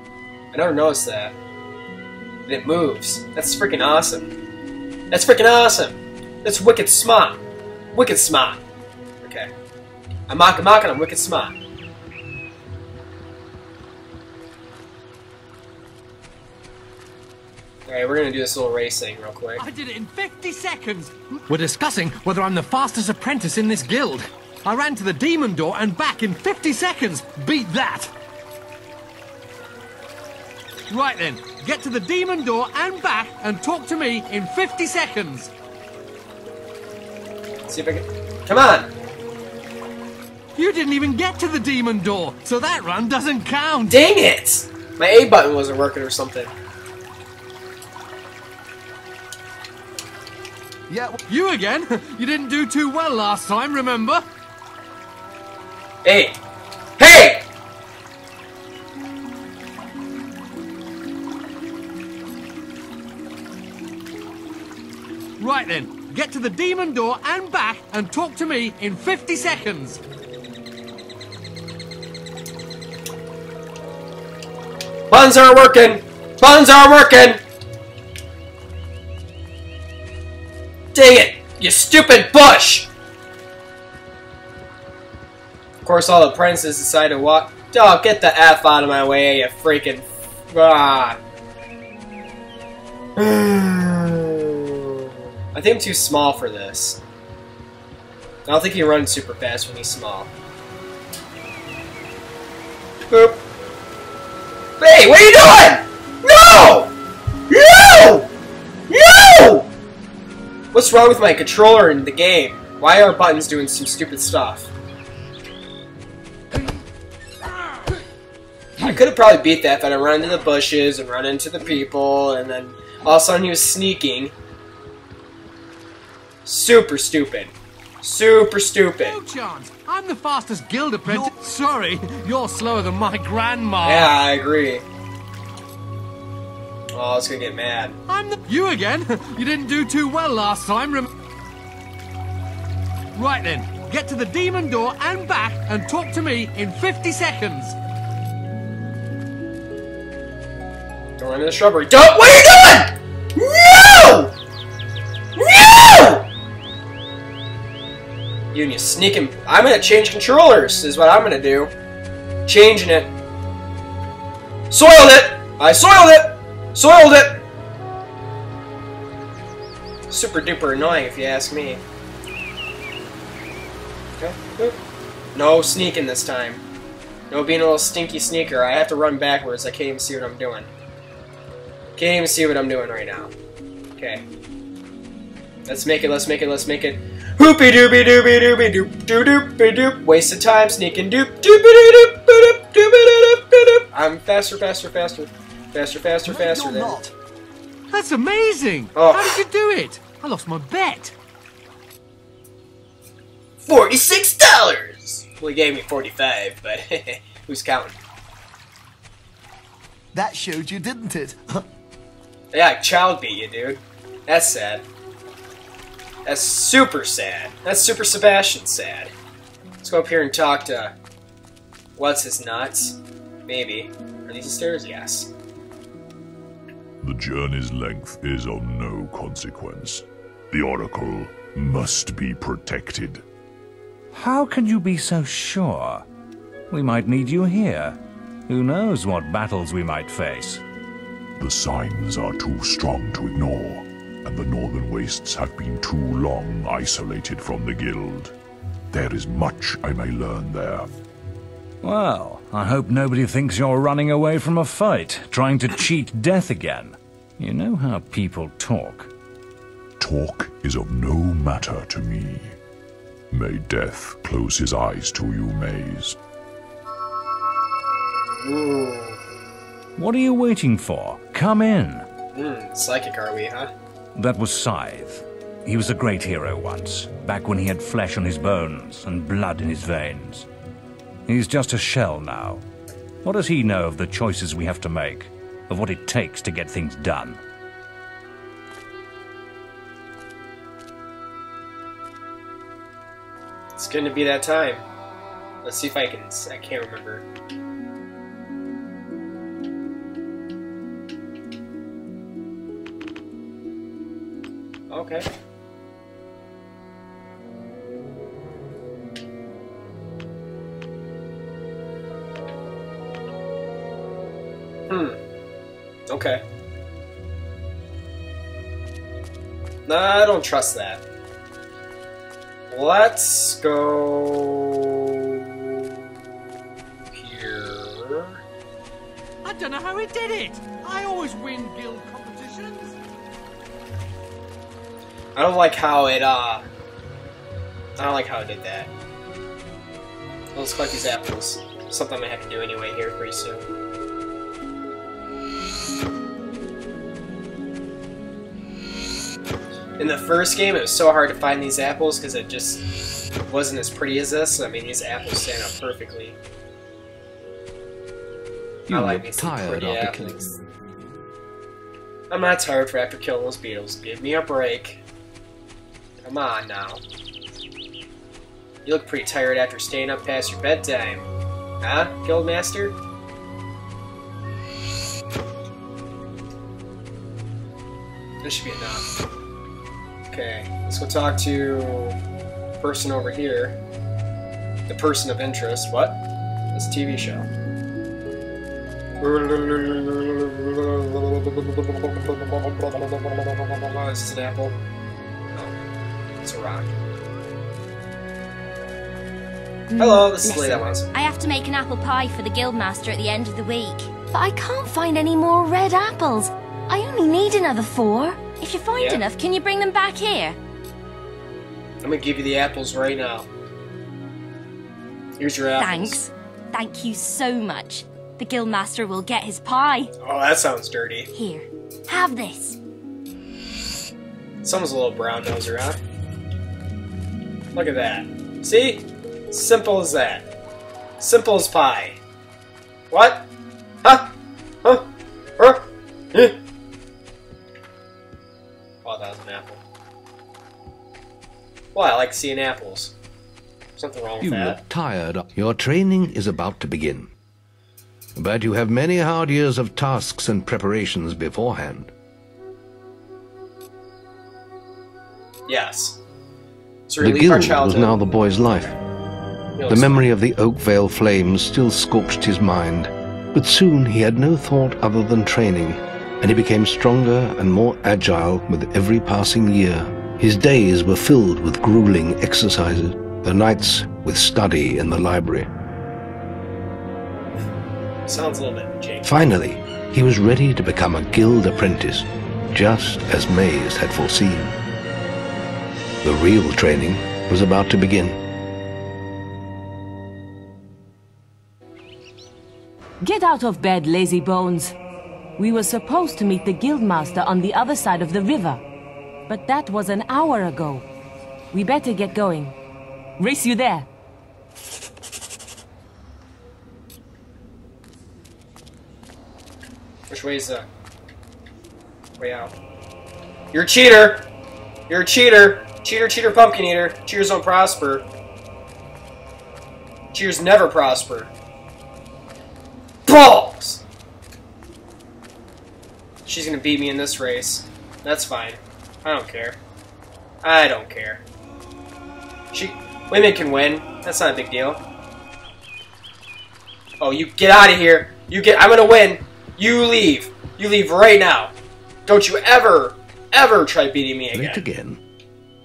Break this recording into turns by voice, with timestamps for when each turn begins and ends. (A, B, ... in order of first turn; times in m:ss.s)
0:00.5-0:01.3 A
0:02.5-0:04.3 A
0:05.1-0:07.4 A
0:07.9-0:08.6 A
0:09.2-0:09.5 A
0:10.3-0:11.6 A
0:17.9-0:19.6 A
0:19.6-0:28.1 B
0:30.9-0:35.5 B
0:37.7-0:38.9 A
0:40.6-0:44.0 B
0:43.9-0:46.5 A
0:50.9-0:51.1 C
0:51.3-0:54.2 B
0:56.0-0:56.4 A
0:57.0-0:57.4 A
1:05.4-1:10.0 B
1:15.1-1:17.4 A
1:20.9-1:22.9 A
1:25.8-1:31.2 A
1:33.2-1:37.0 A
1:38.4-1:40.3 A
1:43.1-1:43.4 A
1:44.8-1:46.9 A
1:47.5-1:48.3 A
1:48.9-1:49.7 A
1:50.7-1:54.7 A
1:58.8-2:04.3 A
2:06.4-2:09.2 A
2:09.0-2:14.1 B
2:13.8-2:14.8 A
2:16.9-2:18.0 A
2:18.1-2:21.1 B
2:23.1-2:27.7 B
2:31.2-2:34.3 A
2:35.4-2:36.2 A
2:38.5-2:41.7 A
2:42.4-2:43.1 A
2:44.7-2:47.4 A
2:50.1-2:51.8 A
2:54.2-2:54.8 A
2:55.3-2:56.6 A
2:57.3-3:00.7 A
3:02.0-3:03.3 A
3:04.0-3:04.2 A
3:05.6-3:17.0 A
3:16.2-3:17.1 C
3:17.9-3:21.1 B
3:18.9-3:19.4 A
3:23.6-3:28.0 A
3:30.1-3:31.6 C
3:32.5-3:34.8 A
3:36.2-3:39.1 A
3:39.8-3:40.9 A
3:42.0-3:45.3 A
3:47.0-3:53.2 D
3:54.1-3:56.0 E
3:56.7-3:58.0 E
3:58.5-4:00.6 E
4:01.4-4:08.3 D
4:08.9-4:10.9 D
4:11.8-4:19.1 E
4:20.0-4:22.5 D
4:23.3-4:26.2 D
4:28.4-4:29.2 A
4:30.0-4:32.0 E
4:32.3-4:33.7 A
4:34.1-4:40.5 E
4:41.3-4:42.6 E
4:43.2-4:47.4 E
4:53.8-4:54.8 A
4:55.6-4:57.2 A
5:04.9-5:05.3 A
5:14.9-5:15.2 A
5:16.1-5:16.4 A
5:19.8-5:21.0 A
5:22.7-5:25.8 A
5:27.1-5:28.4 A
5:29.4-5:33.0 B
5:35.3-5:36.6 A
5:38.0-5:38.9 A
5:40.5-5:43.7 A
5:50.0-5:52.8 A
5:53.5-5:56.4 A
5:58.9-6:00.4 F
5:58.9-6:00.5 A
6:02.3-6:05.0 A
6:06.2-6:07.0 A
6:08.8-6:11.3 A
6:11.8-6:13.0 A
6:18.4-6:19.0 A
6:20.3-6:22.2 A
6:22.8-6:23.8 A
6:24.9-6:26.2 A
6:26.7-6:27.5 A
6:29.2-6:34.8 A
6:36.4-6:36.9 A
6:39.9-6:50.6 G
6:40.0-6:41.1 A
6:48.9-6:49.2 A
6:52.0-6:53.5 A
6:55.4-6:56.2 A
6:55.8-7:00.1 G
7:00.2-7:01.3 A
7:01.3-7:02.8 G
7:04.6-7:06.0 A
7:07.7-7:10.5 A
7:11.2-7:12.2 A
7:13.1-7:13.5 A
7:14.0-7:14.3 A
7:15.6-7:16.6 A
7:19.0-7:19.8 A
7:21.9-7:23.1 A
7:24.0-7:24.8 A
7:24.4-7:27.3 F
7:28.4-7:32.1 F
7:35.6-7:36.2 A
7:37.1-7:38.9 A
7:37.2-7:39.0 F
7:39.8-7:40.3 A
7:39.9-7:55.7 F
7:58.2-7:59.3 A
7:59.2-8:04.8 F
8:06.2-8:08.4 F
8:13.2-8:15.0 H
8:15.6-8:18.8 H
8:19.5-8:21.0 H
8:21.7-8:22.7 H
8:23.4-8:24.1 H
8:30.3-8:30.8 A
8:32.4-8:32.7 A
8:33.7-8:34.5 A
8:35.1-8:38.2 A
8:40.3-8:41.5 A
8:43.2-8:44.0 A
8:46.4-8:49.8 A
8:50.6-8:51.4 A
8:52.7-8:55.0 A
8:57.2-9:01.7 A
9:02.2-9:04.8 A
9:04.5-9:05.2 F